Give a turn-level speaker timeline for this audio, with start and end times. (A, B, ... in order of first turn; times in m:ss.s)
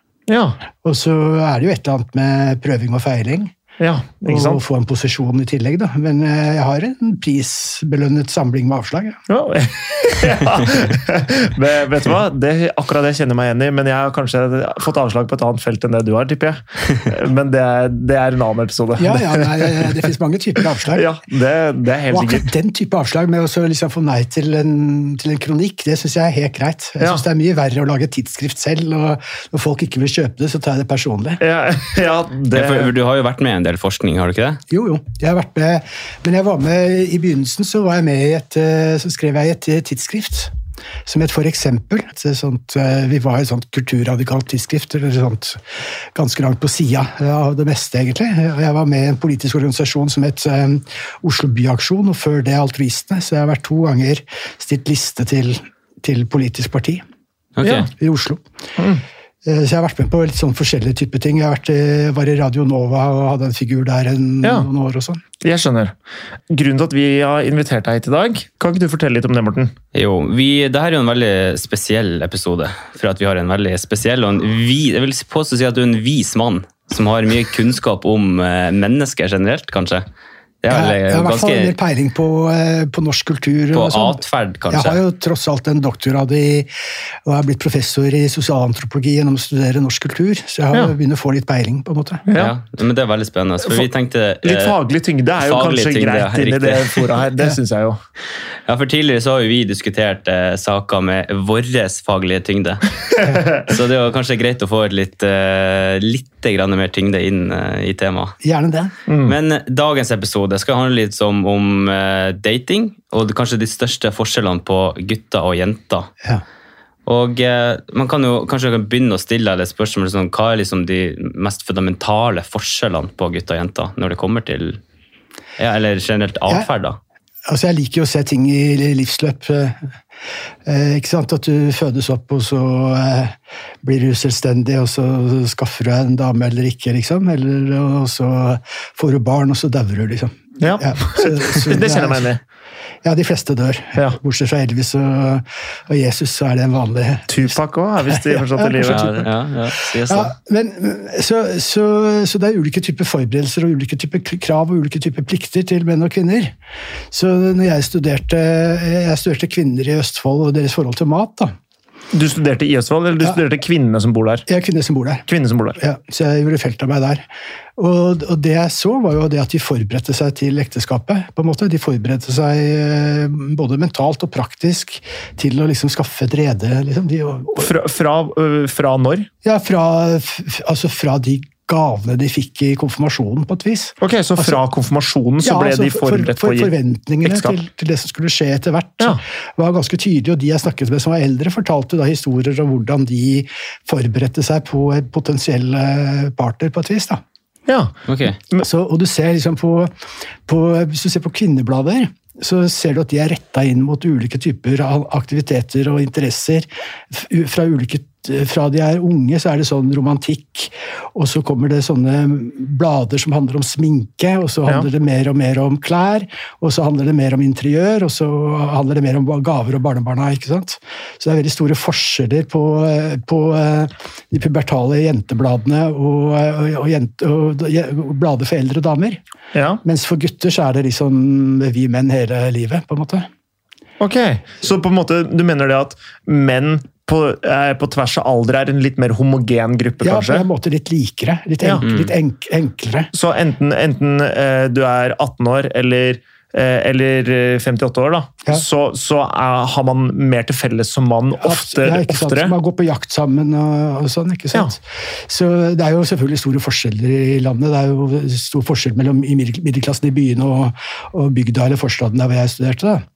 0:00.3-0:00.6 A
0:00.8-0:03.5 B
0:03.8-0:04.6 A
0:04.3-0:09.2 B
0:09.3-0:20.1 A
0:19.0-0:21.1 B
0:20.9-0:22.5 A
0:22.1-0:31.4 B
0:31.4-0:32.9 A
0:32.5-0:34.6 C
0:34.7-0:40.5 B
0:41.1-0:45.6 B
0:46.2-0:57.0 B
0:57.6-0:57.9 C
0:57.6-0:57.9 A
0:57.9-0:58.4 B
0:58.8-0:59.0 A
0:59.4-1:05.2 B
1:04.4-1:04.7 A
1:05.4-1:05.9 A
1:06.5-1:09.7 A
1:09.9-1:20.1 C
1:20.6-1:21.8 C
1:20.7-1:26.7 B
1:23.7-1:25.0 C
1:27.3-1:32.2 B
1:32.3-1:32.5 A
1:32.3-1:34.8 C
1:34.4-1:38.0 A
1:35.4-1:37.1 C
1:38.7-1:42.8 C
1:43.5-1:48.4 C
1:48.4-1:48.9 B
1:49.1-1:49.4 A
1:49.2-1:56.1 C
1:57.1-2:04.8 C
2:05.6-2:07.0 C
2:07.5-2:09.9 B
2:10.7-2:22.4 B
2:20.6-2:22.4 A
2:23.0-2:29.3 B
2:27.3-2:29.3 A
2:28.8-2:30.3 C
2:29.8-2:36.5 B
2:37.1-2:41.6 B
2:42.1-2:44.5 A
2:44.5-2:45.2 B
2:45.3-2:45.8 A
2:45.8-2:47.2 B
2:47.8-2:57.7 B
2:57.6-2:59.3 A
2:59.4-3:04.6 B
3:04.0-3:07.5 A
3:05.4-3:17.2 B
3:17.7-3:17.9 A
3:18.1-3:18.4 C
3:18.6-3:19.9 B
3:20.5-3:49.2 B
3:49.5-3:49.8 A
3:49.8-3:53.3 B
3:54.0-4:00.5 A
4:00.0-4:03.1 B
4:01.8-4:02.1 C
4:03.1-4:12.6 A
4:11.4-4:23.0 B